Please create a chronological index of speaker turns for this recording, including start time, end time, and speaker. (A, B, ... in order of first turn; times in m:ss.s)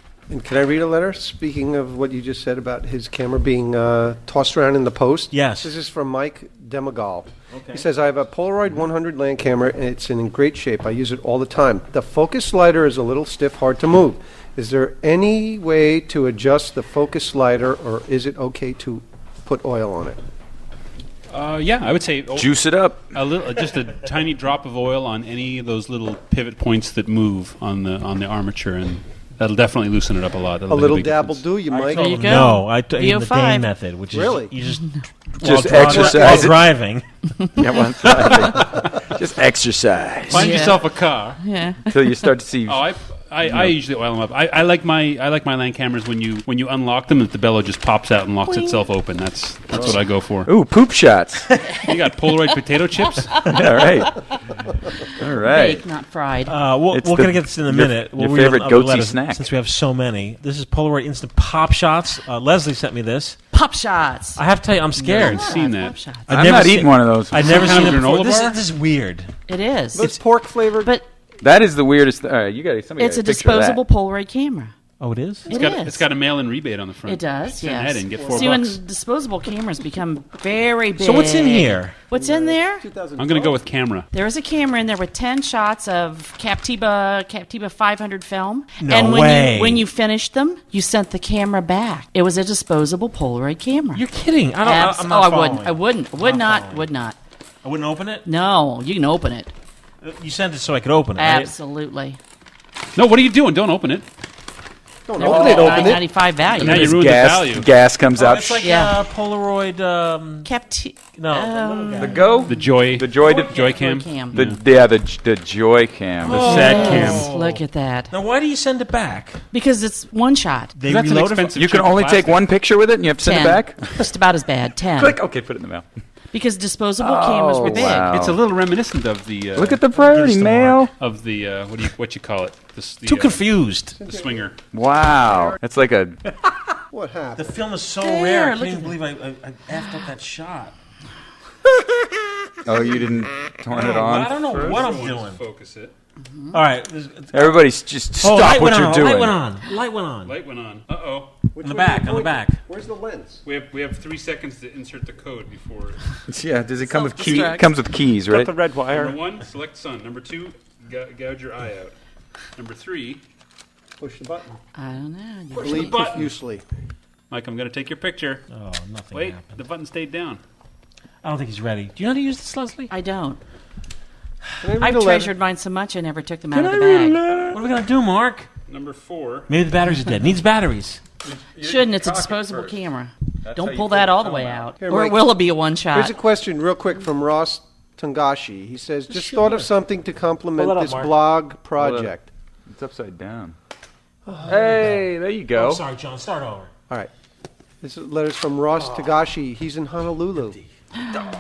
0:00.3-0:20.2 A
0:05.3-0:05.7 B
0:07.6-0:07.8 B
0:21.3-0:31.4 C
0:22.4-0:23.1 D
0:30.7-0:32.4 A
0:31.7-0:37.0 B
0:31.9-0:33.8 E
0:34.1-0:34.5 A
0:34.6-0:35.0 E
0:35.4-0:36.8 D
0:37.6-0:40.6 D
0:38.0-0:38.5 B
0:40.3-0:41.4 C
0:40.3-0:42.0 E
0:41.9-0:43.7 D
0:42.7-0:50.5 C
0:48.4-0:48.9 E
0:49.7-0:51.7 D
0:51.9-0:53.3 C
0:53.1-0:54.2 E
0:53.6-0:54.2 D
0:55.2-0:55.9 D
0:55.4-0:56.6 E
0:56.5-1:03.4 B
0:56.9-0:59.5 D
1:03.5-1:04.4 E
1:04.4-1:05.6 B
1:05.0-1:06.3 E
1:05.0-1:06.0 C
1:06.3-1:09.4 B
1:06.3-1:08.1 D
1:07.3-1:08.6 C
1:09.5-1:10.1 E
1:09.9-1:10.9 A
1:10.8-1:11.1 E
1:11.4-1:13.8 D
1:13.0-1:14.7 E
1:15.0-1:15.5 B
1:15.5-1:16.1 E
1:15.5-1:18.8 C
1:17.0-1:22.9 E
1:18.1-1:18.6 A
1:21.0-1:22.0 B
1:22.1-1:23.7 A
1:23.2-1:24.1 C
1:24.1-1:34.1 E
1:28.8-1:29.9 B
1:33.9-1:36.9 B
1:34.6-1:37.2 E
1:37.6-1:38.3 B
1:38.2-1:39.5 E
1:40.0-1:41.5 B
1:41.2-1:42.2 E
1:43.0-1:44.1 C
1:45.1-1:46.0 A
1:45.2-1:46.9 E
1:45.2-1:45.8 D
1:46.5-1:47.7 C
1:46.6-1:48.7 D
1:48.2-1:50.5 B
1:48.6-1:49.0 E
1:50.4-1:52.6 E
1:51.2-1:52.3 B
1:52.0-1:56.9 D
1:52.5-1:54.6 C
1:53.2-1:54.4 E
1:56.2-1:58.1 E
1:56.3-1:59.4 B
1:56.3-1:57.3 C
1:59.5-2:00.8 E
2:00.8-2:01.6 B
2:00.8-2:02.5 C
2:01.6-2:03.9 D
2:03.2-2:05.2 E
2:05.0-2:06.0 D
2:06.3-2:08.3 E
2:07.0-2:08.4 D
2:08.1-2:09.8 C
2:09.6-2:10.9 D
2:09.9-2:10.9 B
2:11.0-2:13.5 C
2:13.0-2:14.0 B
2:14.0-2:14.5 A
2:14.0-2:14.6 C
2:14.7-2:16.2 D
2:15.1-2:15.6 A
2:16.9-2:17.6 A
2:17.4-2:20.8 B
2:18.0-2:19.0 E
2:22.7-2:24.8 D
2:23.7-2:25.4 B
2:24.5-2:25.9 C
2:26.5-2:27.6 B
2:27.3-2:29.4 D
2:28.2-2:30.3 B
2:30.2-2:31.4 C
2:31.6-2:33.4 A
2:31.6-2:32.6 B
2:33.4-2:36.0 C
2:36.3-2:38.7 D
2:36.9-2:37.7 E
2:38.8-2:41.9 C
2:42.6-2:43.2 C
2:44.0-2:44.6 A
2:44.8-2:46.0 E
2:45.6-2:46.3 C
2:45.6-2:46.6 A
2:47.3-2:48.4 C
2:48.5-2:49.6 B
2:49.1-2:50.4 C
2:51.2-2:52.9 B
2:52.9-2:53.4 E
2:54.6-2:55.3 A
2:54.8-2:57.2 E
2:56.5-2:57.6 D
2:57.5-2:58.5 B
2:58.7-2:59.5 C
2:59.5-3:01.0 B
3:01.6-3:02.8 D
3:01.6-3:06.2 E
3:03.4-3:04.7 D
3:04.8-3:05.3 A
3:05.9-3:12.3 A
3:09.1-3:09.7 B
3:10.6-3:11.2 B
3:11.8-3:13.6 D
3:14.3-3:14.7 A
3:14.5-3:15.8 D
3:14.5-3:15.0 B
3:15.5-3:16.7 B
3:17.8-3:20.6 A
3:21.0-3:21.3 E